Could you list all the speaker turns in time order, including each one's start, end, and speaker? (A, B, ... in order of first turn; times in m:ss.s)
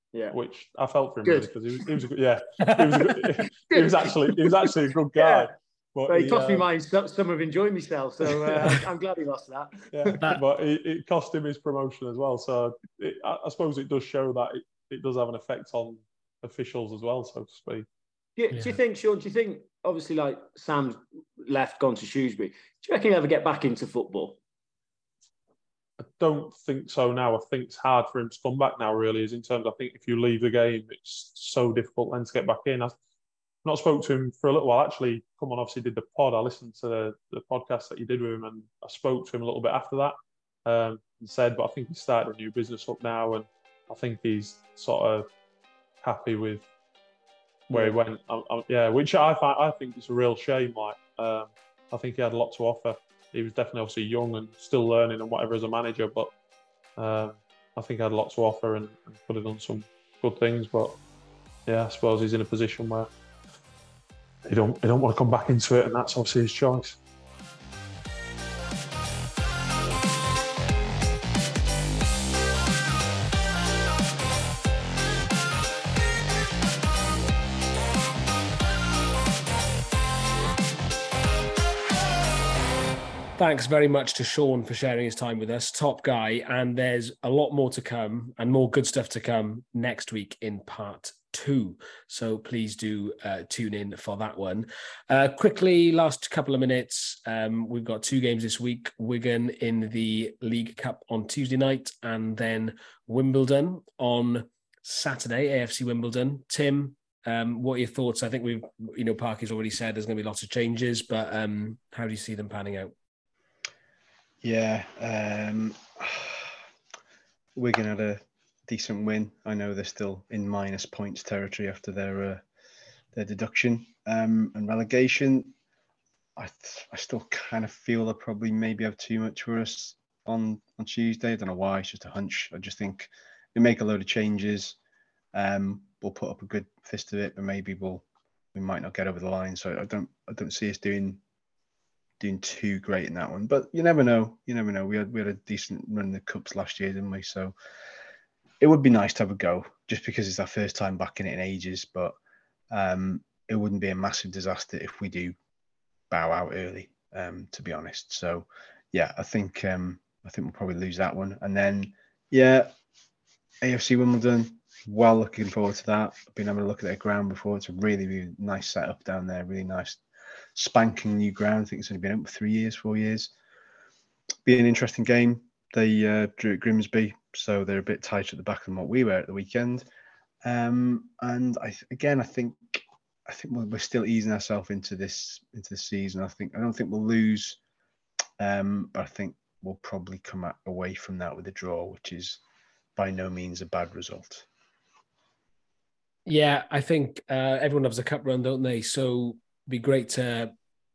0:00.3-0:06.7 A
0:01.2-0:02.0 B
0:02.8-0:05.5 B
0:06.1-0:10.4 B
0:08.4-0:08.8 A
0:09.9-0:17.8 A
0:18.4-0:24.4 B
0:26.0-0:32.9 A
0:33.6-0:45.3 A
0:46.0-0:46.6 A
0:47.7-0:56.3 A
0:57.0-1:01.0 A
1:01.6-1:03.1 A
1:04.4-1:07.0 A
1:23.4-1:52.9 C
1:54.4-1:56.5 D
1:57.6-2:02.4 D
2:03.1-2:05.5 D
2:06.4-2:14.8 D
2:15.3-2:21.2 D
2:22.2-2:27.6 D
2:28.6-2:32.2 D
2:32.7-2:35.4 D
2:36.1-2:42.7 D
2:43.6-2:50.0 D
2:50.6-2:53.3 D
2:54.4-2:59.8 D
3:00.4-3:07.6 D
3:08.4-3:12.4 D
3:13.0-3:14.5 D
3:16.3-3:20.5 C